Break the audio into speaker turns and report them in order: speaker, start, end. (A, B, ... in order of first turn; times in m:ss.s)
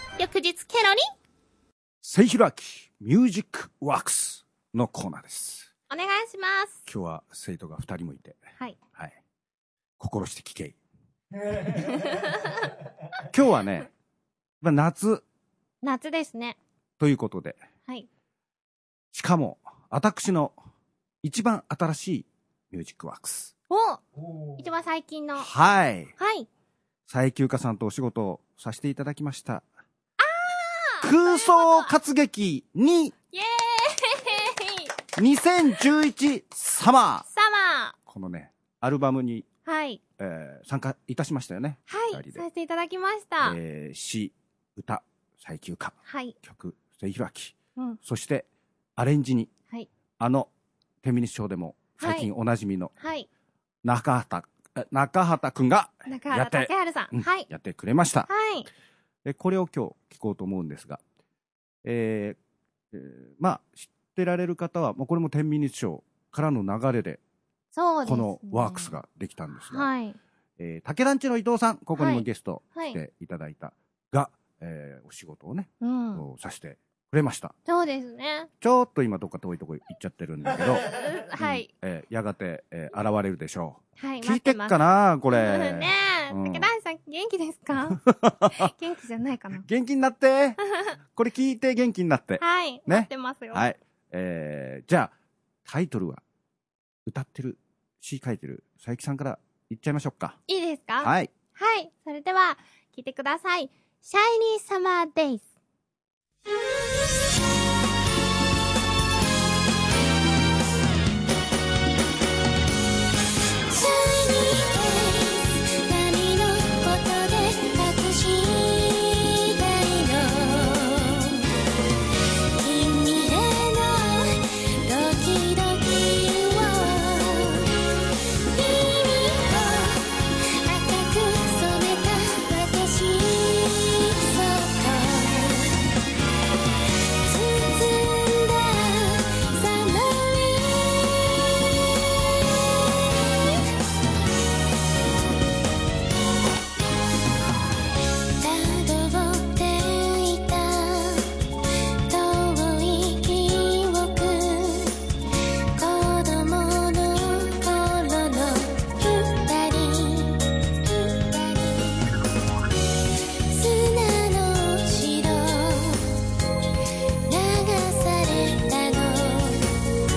0:00.2-0:01.1 A
0:02.0-0:05.7 B
0:05.9-0:06.8 A
0:06.9-0:08.4 B
0:10.0-0:10.8 B
0:13.3-0:13.9 B
0:14.6-0:15.2 B
0:15.8-0:16.6 A
0:17.0-0:17.6 B
0:19.1-0:20.6 B
0:21.2-0:23.5 B
0:23.7-0:24.0 A
0:24.6-0:25.5 A
0:25.4-0:26.1 B
0:26.2-0:26.5 A
0:27.1-0:29.6 B
0:30.2-0:31.9 A
0:31.0-0:33.1 B
0:33.3-0:34.9 A
0:35.2-0:37.2 B
0:37.3-0:38.0 A
0:38.1-0:39.5 B
0:39.7-0:40.0 A
0:40.2-0:42.4 B
0:41.9-0:43.6 A
0:43.4-0:49.5 B
0:46.1-0:46.4 A
0:50.2-0:50.5 B
0:51.0-0:52.9 B
0:52.0-0:52.3 A
0:53.0-0:53.3 A
0:53.8-0:58.3 B
0:56.1-0:57.5 A
0:58.3-0:58.7 A
0:59.2-1:01.0 B
1:01.8-1:02.4 B
1:02.9-1:07.2 B
1:07.8-1:08.9 A
1:08.0-1:09.9 B
1:09.7-1:10.2 A
1:10.6-1:17.5 B
1:12.0-1:13.0 A
1:15.8-1:16.2 A
1:17.7-1:18.5 A
1:18.6-1:20.9 B
1:20.9-1:21.7 A
1:21.4-1:26.7 B
1:24.0-1:29.6 A
1:27.9-1:28.7 B
1:29.6-1:30.6 B
1:31.1-1:35.1 B
1:32.4-1:33.7 A
1:35.6-1:36.2 B
1:37.1-1:40.4 B
1:40.5-1:45.5 A
1:41.0-1:41.3 B
1:53.7-2:01.5 C
2:02.6-2:07.8 C
2:08.5-2:15.9 C
2:17.2-2:21.4 C
2:28.4-2:31.3 C
2:32.0-2:35.0 C
2:35.8-2:42.2 C
2:43.5-2:46.2 C
2:47.3-2:49.7 C